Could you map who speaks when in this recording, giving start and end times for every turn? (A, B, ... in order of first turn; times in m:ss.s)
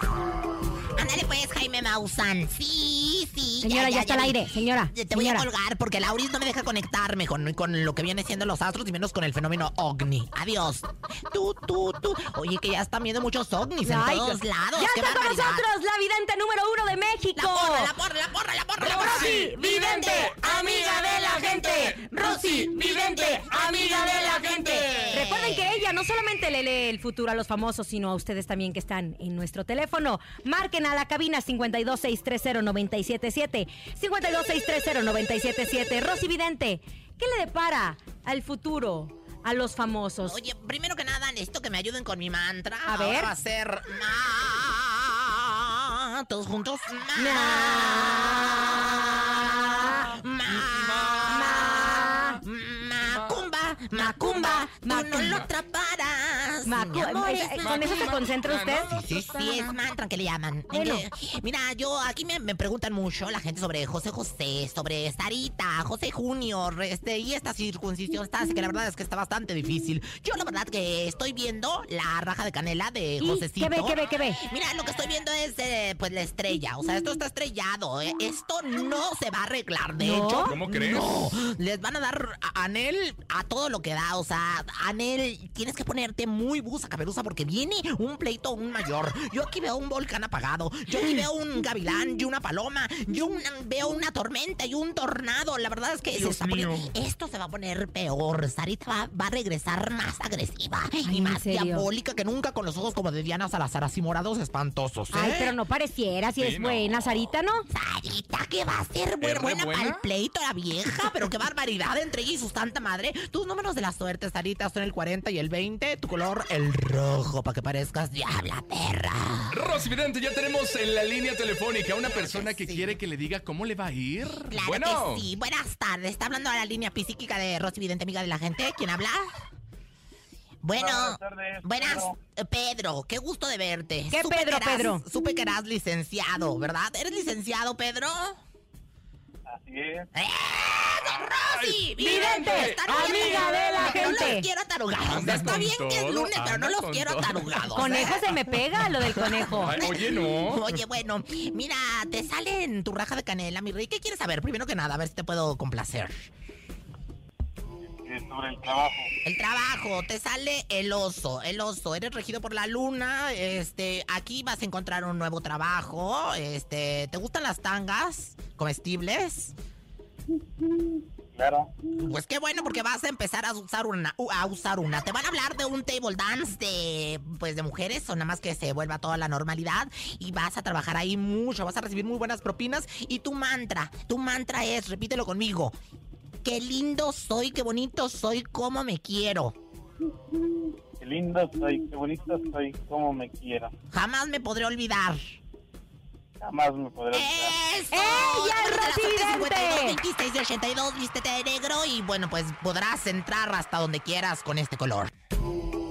0:01.0-0:15.7 A
0:03.6-0:05.5 B
0:13.8-0:17.9 B
0:17.4-0:20.4 A
0:18.8-0:40.4 B
0:22.2-0:22.5 A
0:23.1-0:25.7 A
0:40.2-0:58.1 A
0:42.8-0:43.3 B
0:47.2-0:50.1 B
0:50.6-0:51.0 C
0:51.3-0:52.4 B
0:53.1-0:53.4 C
0:53.9-0:55.5 B
0:56.6-0:58.9 B
0:57.5-0:59.8 C
0:58.9-1:45.6 A
1:00.7-1:01.1 B
1:13.2-1:14.4 B
1:20.0-1:20.6 B
1:20.5-1:21.1 C
1:36.1-1:36.9 C
1:41.0-1:41.9 B
1:45.1-1:47.7 B
1:46.4-1:47.2 C
1:47.7-1:59.8 A
1:49.2-1:50.0 C
1:59.5-2:05.3 C
2:02.0-2:03.0 A
2:04.5-2:09.3 A
2:10.6-2:18.4 A
2:10.8-2:12.2 D
2:14.1-2:15.0 B
2:19.4-2:20.1 D
2:20.1-2:36.3 A
2:21.4-2:24.2 C
2:22.0-2:24.5 B
2:25.1-2:27.7 C
2:27.7-2:29.8 B
2:29.6-2:30.6 C
2:37.9-2:39.1 D
2:39.2-2:49.6 A
2:51.3-2:51.8 D
2:52.0-3:05.8 A
3:06.4-3:09.6 A
3:11.0-3:13.7 D
3:13.9-3:15.4 A
3:16.4-3:17.6 D
3:17.1-3:25.1 A
3:17.9-3:20.0 B